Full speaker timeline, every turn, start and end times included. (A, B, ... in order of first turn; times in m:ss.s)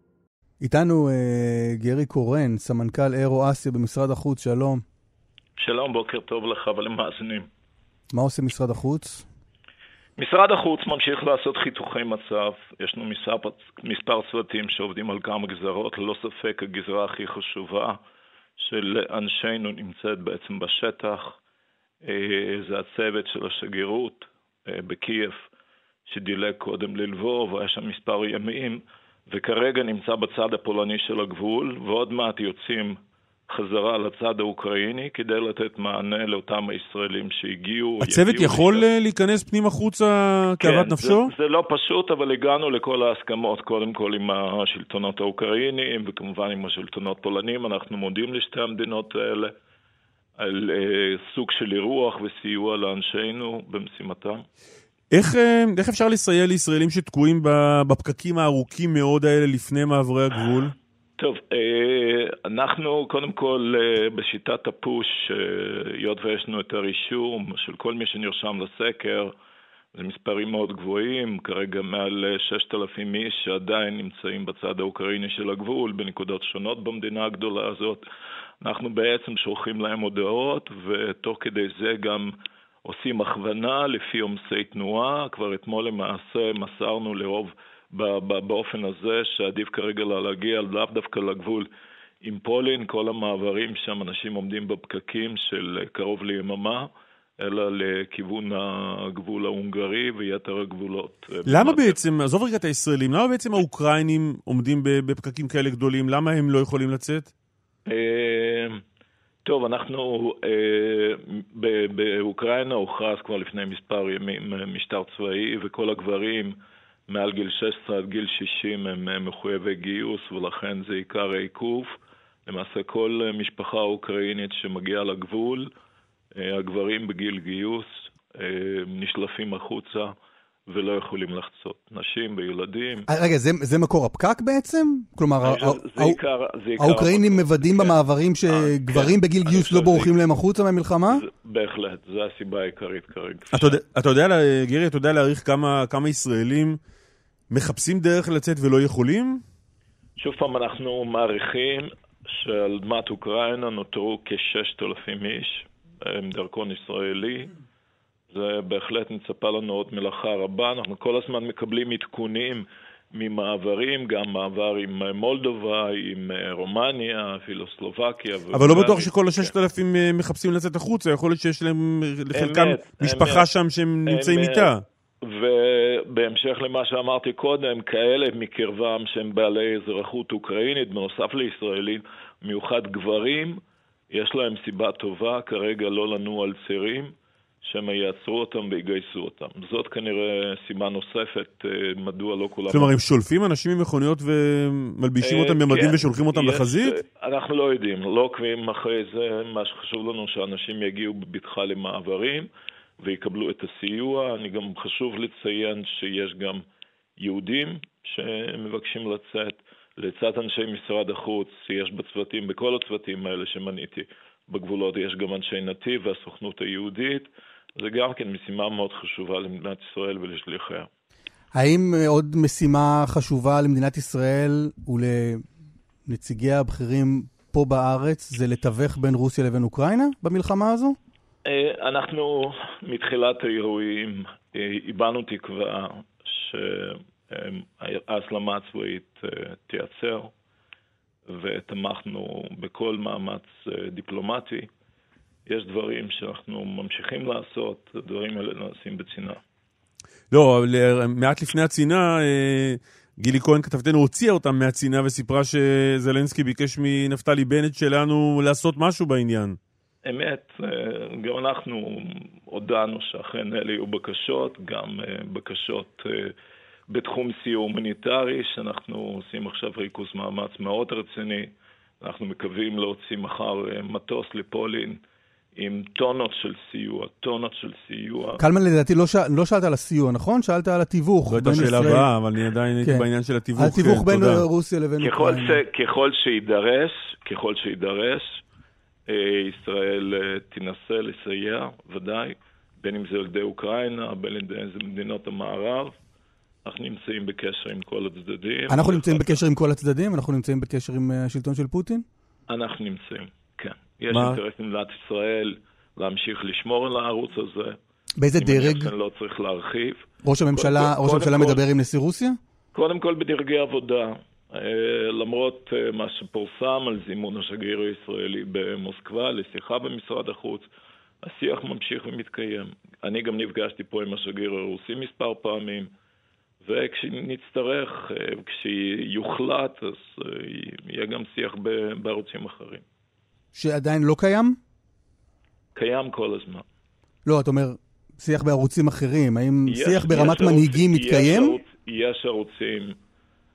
0:00.6-0:04.8 A
0:05.6-0:07.5 B
0:08.1-0:09.2 A
0:10.2-0:18.0 B
0:18.6-0:21.4 B
0:22.0-0:25.5 B
0:26.0-0:33.0 B
0:33.5-0:38.9 B
0:38.0-0:41.3 C
0:40.6-0:49.5 B
0:50.4-0:54.4 B
0:55.1-1:00.7 C
1:01.2-1:09.3 B
1:09.9-1:18.0 B
1:18.6-1:22.3 B
1:22.8-1:31.7 B
1:32.2-1:36.9 B
1:37.4-1:42.0 B
1:41.4-1:47.3 C
1:47.8-1:48.8 B
1:49.4-1:56.5 B
1:57.1-2:01.9 B
2:02.4-2:05.7 B
2:06.4-2:10.1 B
2:10.7-2:13.1 B
2:13.1-2:16.2 A
2:15.4-2:20.2 B
2:16.8-2:21.2 A
2:21.1-2:23.8 B
2:23.5-2:26.8 C
2:27.5-2:29.4 C
2:30.2-2:37.5 B
2:38.3-2:49.5 B
2:48.5-2:54.8 C
2:52.3-2:53.5 B
2:54.0-3:03.6 B
3:04.1-3:12.9 B
3:12.7-3:16.9 C
3:15.2-3:22.5 B
3:23.0-3:26.6 B
3:27.2-3:40.9 B
3:41.5-3:45.4 A
3:46.1-3:51.0 A
3:51.4-4:00.3 B
4:01.3-4:04.7 B
4:05.4-4:09.4 B
4:10.3-4:19.6 C
4:20.0-4:26.3 B
4:26.9-4:35.0 B
4:35.5-4:38.4 B
4:38.4-4:42.1 A
4:41.3-4:44.4 C
4:42.8-4:45.6 A
4:45.0-4:48.4 B
4:49.1-4:56.0 B
4:56.6-4:59.4 B
4:58.7-5:02.0 A
5:02.5-5:07.8 B
5:04.1-5:04.4 C
5:08.2-5:08.9 A
5:08.3-5:11.6 B
5:10.2-5:12.4 A
5:12.7-5:20.7 B
5:21.2-5:25.9 B
5:26.6-5:32.8 B
5:33.5-5:34.6 A
5:35.7-5:36.6 B
5:37.2-5:41.6 A
5:39.7-5:42.9 B